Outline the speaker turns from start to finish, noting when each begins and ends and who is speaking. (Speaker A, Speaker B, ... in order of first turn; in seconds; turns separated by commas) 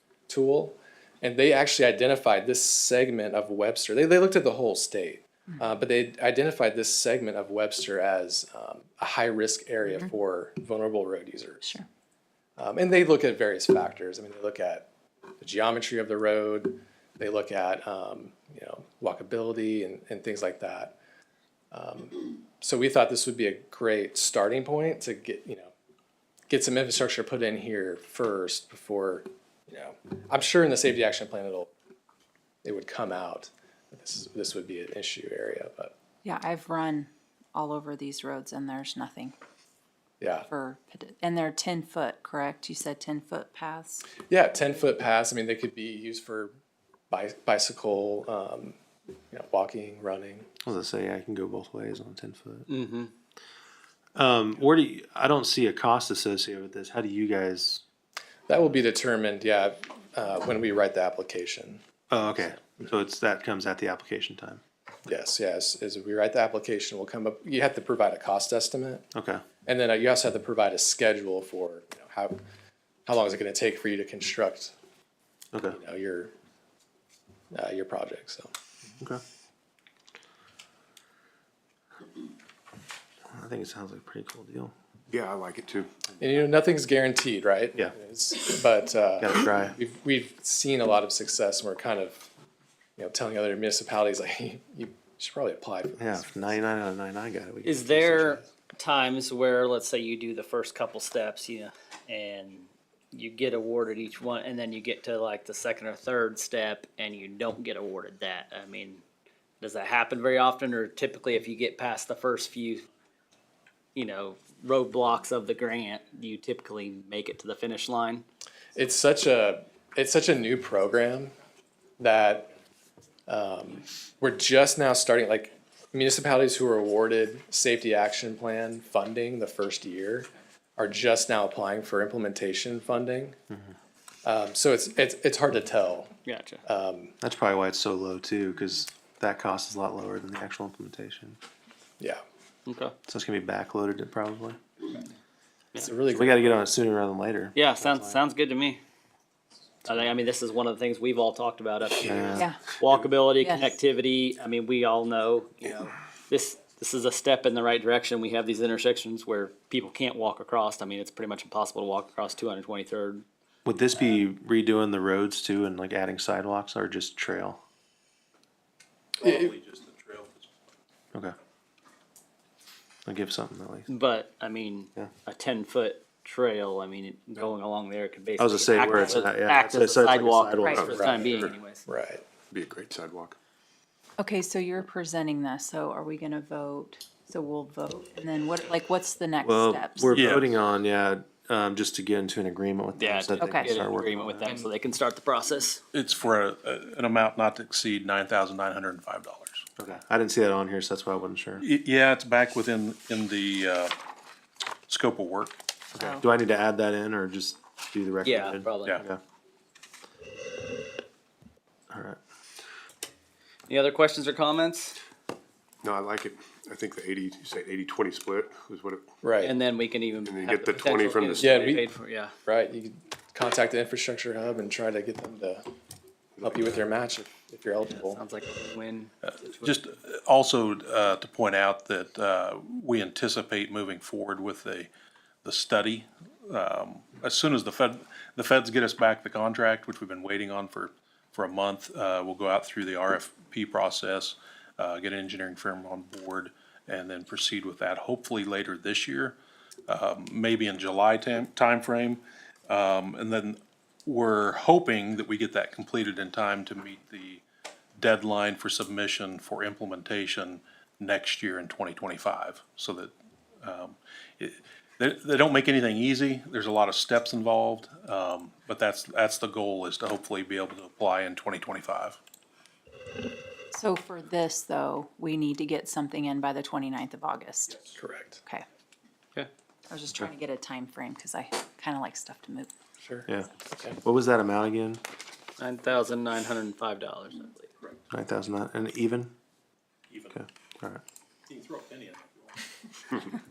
Speaker A: 0.3-11.7, Speaker A: 12.6-14.9, Speaker A: 15.4-20.9, Speaker A: 21.7-25.7, Speaker A: 26.5-31.7, Speaker A: 32.6-35.9, Speaker B: 36.2-39.3, Speaker A: 40.2-40.5, Speaker B: 40.5-44.2, Speaker A: 44.2-46.5, Speaker A: 47.1-48.8, Speaker A: 49.3-50.5, Speaker C: 50.6-52.7, Speaker D: 52.7-53.1, Speaker C: 54.1-57.8, Speaker A: 58.5-61.8, Speaker C: 62.1-64.6, Speaker A: 62.4-62.9, Speaker A: 65.1-69.0, Speaker C: 69.1-69.4, Speaker A: 69.6-72.4, Speaker A: 73.0-74.7, Speaker C: 75.5-75.8, Speaker A: 75.7-76.3, Speaker A: 77.5-78.5, Speaker C: 83.3-84.7, Speaker E: 85.1-86.2, Speaker A: 86.2-92.2, Speaker C: 89.2-89.8, Speaker A: 93.0-96.4, Speaker C: 96.0-98.4, Speaker D: 97.6-109.0, Speaker D: 109.6-112.9, Speaker D: 113.9-118.2, Speaker A: 118.8-121.3, Speaker A: 122.0-122.5, Speaker A: 123.3-133.4, Speaker A: 134.2-136.1, Speaker D: 136.2-136.6, Speaker A: 136.6-137.1, Speaker C: 137.2-141.4, Speaker D: 142.7-142.9, Speaker C: 143.1-144.6, Speaker A: 145.8-146.6, Speaker C: 146.1-148.2, Speaker D: 147.5-148.8, Speaker D: 149.8-163.2, Speaker C: 152.0-152.5, Speaker B: 152.3-152.7, Speaker B: 153.3-153.8, Speaker C: 163.6-167.6, Speaker F: 169.2-170.5, Speaker A: 169.2-169.5, Speaker C: 173.1-173.9, Speaker D: 173.9-181.8, Speaker C: 178.4-181.2, Speaker B: 180.6-181.0, Speaker A: 180.9-182.2, Speaker E: 181.0-181.6, Speaker E: 182.5-183.4, Speaker B: 184.2-190.2, Speaker C: 189.4-194.5, Speaker F: 190.1-190.5, Speaker D: 192.9-195.8, Speaker B: 193.4-193.7, Speaker F: 195.9-199.7, Speaker C: 199.8-201.6, Speaker F: 201.6-203.9, Speaker F: 204.9-205.6, Speaker B: 205.9-206.3, Speaker C: 205.9-209.2, Speaker D: 208.2-209.0, Speaker C: 211.9-212.2, Speaker D: 213.7-215.0, Speaker E: 215.8-219.1, Speaker A: 219.2-219.6, Speaker D: 219.4-222.3, Speaker E: 220.2-221.6, Speaker A: 221.4-221.8, Speaker A: 222.4-225.7, Speaker E: 226.4-226.8, Speaker A: 226.4-228.2, Speaker D: 228.0-229.8, Speaker F: 229.2-234.9, Speaker F: 235.4-249.3, Speaker F: 249.9-257.4, Speaker F: 258.0-263.1, Speaker F: 263.6-272.2, Speaker B: 273.7-277.8, Speaker A: 277.9-278.4, Speaker B: 279.9-282.7, Speaker A: 283.0-284.0, Speaker C: 283.3-285.0, Speaker D: 285.6-287.7, Speaker C: 288.1-289.3, Speaker F: 290.1-290.4, Speaker C: 290.3-291.0, Speaker F: 291.5-293.3